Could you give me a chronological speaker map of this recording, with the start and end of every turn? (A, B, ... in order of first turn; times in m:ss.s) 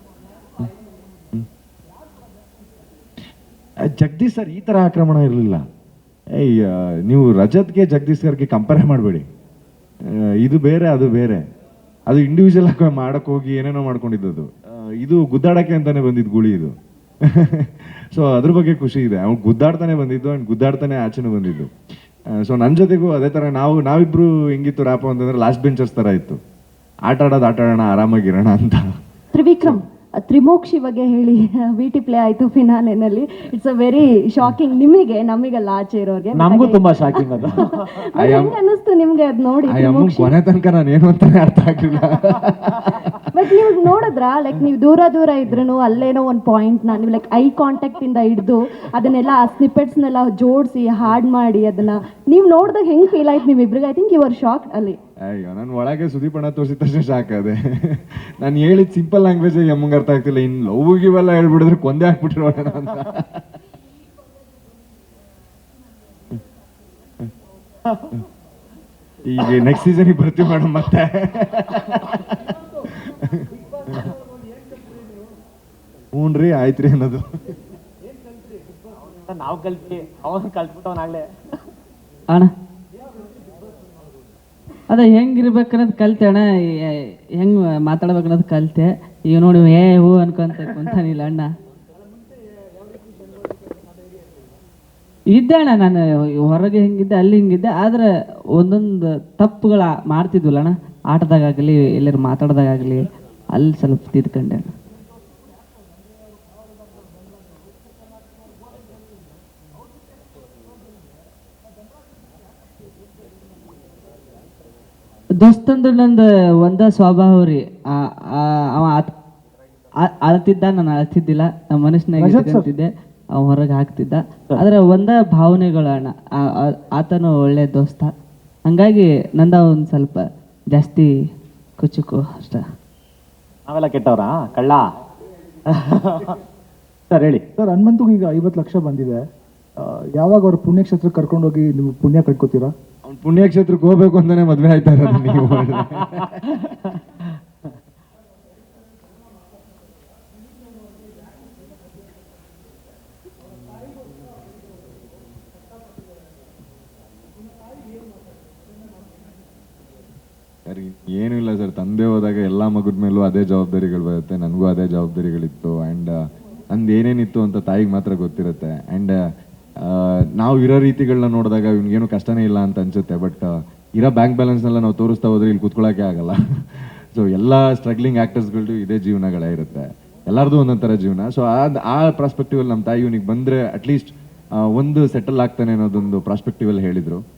0:03.9-0:05.6 A
0:06.4-0:09.3 A
0:10.4-0:11.4 A
0:12.1-0:16.7 A
0:17.2-0:21.7 A
0:22.4-0:26.4 A
0:27.1-0:28.8 A
0:29.3-0:37.2 B
0:36.4-0:38.0 C
0:37.9-0:40.3 B
0:38.2-0:38.6 A
0:39.7-0:43.1 A
0:43.4-0:55.0 B
0:55.3-1:03.4 A
1:09.3-1:14.0 A
1:16.1-1:17.2 A
1:19.1-1:21.2 C
1:24.9-1:31.5 D
1:35.3-1:38.0 D
1:38.6-1:44.7 D
1:55.4-1:57.6 D
1:58.3-1:59.1 D
2:00.1-2:08.1 D
2:02.2-2:02.7 E
2:08.7-2:11.1 D
2:11.8-2:12.6 D
2:13.7-2:14.8 C
2:15.7-2:16.3 C
2:17.1-2:17.4 C
2:17.6-2:19.2 E
2:19.8-2:22.7 E
2:23.1-2:26.3 A
2:40.7-2:46.2 A
2:46.7-2:49.2 A
2:49.8-2:56.4 A
2:57.1-3:04.1 A
3:04.7-3:07.2 A